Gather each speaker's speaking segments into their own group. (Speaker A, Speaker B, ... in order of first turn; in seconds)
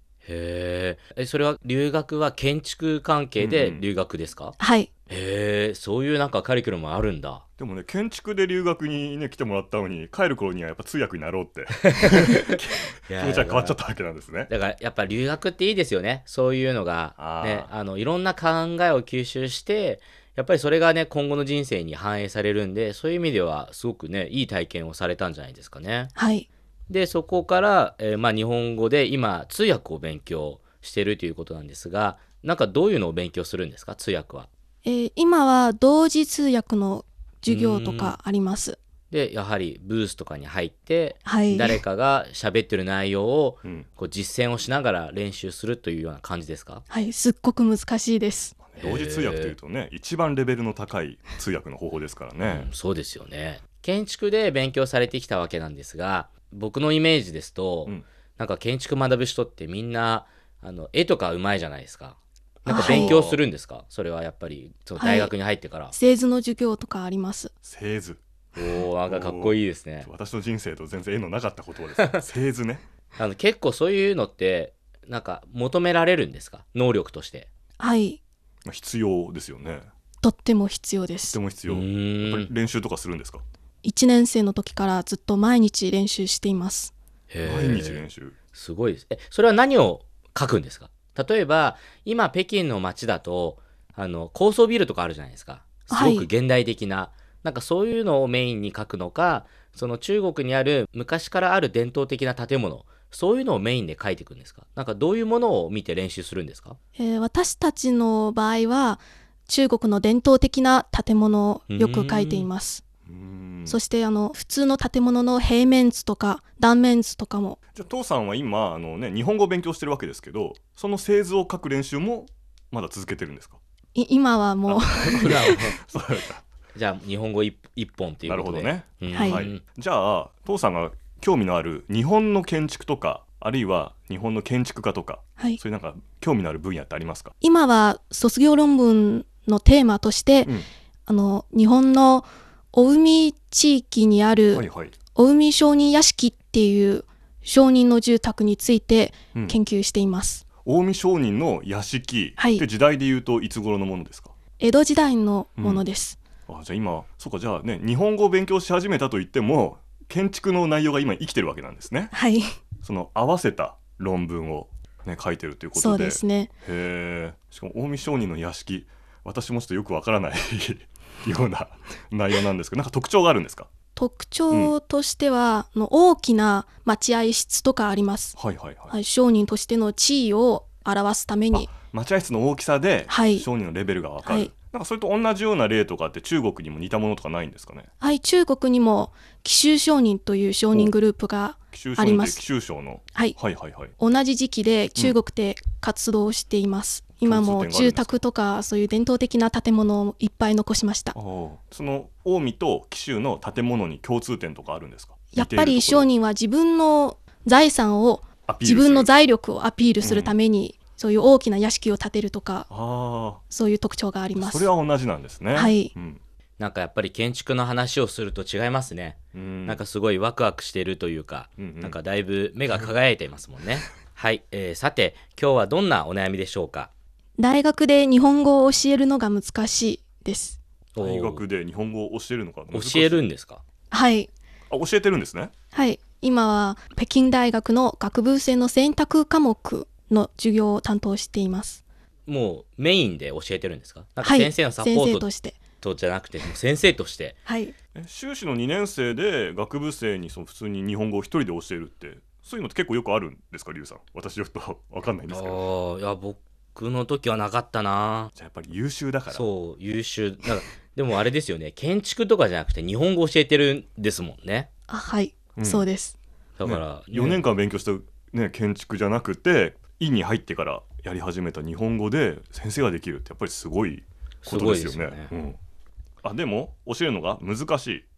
Speaker A: 0.2-4.6, 5.1-7.4, 13.1-13.8, 14.5-26.1, 26.9-34.5, 37.5-38.2, 39.1-46.8, 48.8-49.5, 52.4-65.9, 68.5-70.1, 72.0-72.2, 73.2-77.5, 81.7-82.5, 87.3-106.8, 111.7-112.5, 125.0-125.8, 126.8-129.6, 216.6-226.9, 231.0-231.4, 232.7-233.6, 242.3-245.3, 245.8-247.4, 255.3-258.3, 259.3-264.7, 266.6-267.4, 274.4-275.3
Speaker B: 3.4-3.9, 7.6-14.5, 17.2-17.7, 48.7-52.7, 62.9-63.4, 67.7-68.2, 69.1-72.8, 78.7-79.9, 81.2-83.4, 87.5-88.4, 113.1-113.8, 117.8-123.6, 124.7-126.4, 128.3-137.3, 144.5-144.9, 150.6-154.3, 155.6-155.8, 156.5-162.1, 162.8-173.7, 178.4-178.9, 181.7-187.9, 191.7-193.9, 197.2-198.2, 201.2-206.1, 208.5-209.1, 210.0-210.3, 212.7-213.4, 214.4-216.2, 219.3-219.8, 221.6-222.0, 231.0-233.3, 234.7-235.5, 247.9-255.6, 258.4-259.5, 265.6-265.9, 266.6-275.6, 276.2-278.1
Speaker C: 4.6-4.9, 26.1-26.5, 34.8-38.8, 41.2-41.8, 46.9-48.6, 62.7-63.2, 65.0-65.3, 65.9-67.5, 77.8-78.2, 80.2-81.4, 83.8-86.9, 95.9-96.3, 107.0-112.8, 113.7-117.6, 124.0-125.8, 129.1-129.4, 137.4-140.5, 141.1-150.4, 152.4-152.6, 154.6-156.2, 162.1-162.4, 165.8-166.5, 174.0-178.4, 178.9-181.7, 183.1-183.5, 184.2-184.5, 188.0-192.4, 194.0-201.2, 205.3-212.7, 213.5-214.7, 215.5-215.9, 227.4-230.6, 233.9-234.3, 235.7-241.8, 244.2-245.6, 247.5-247.7, 264.9-266.2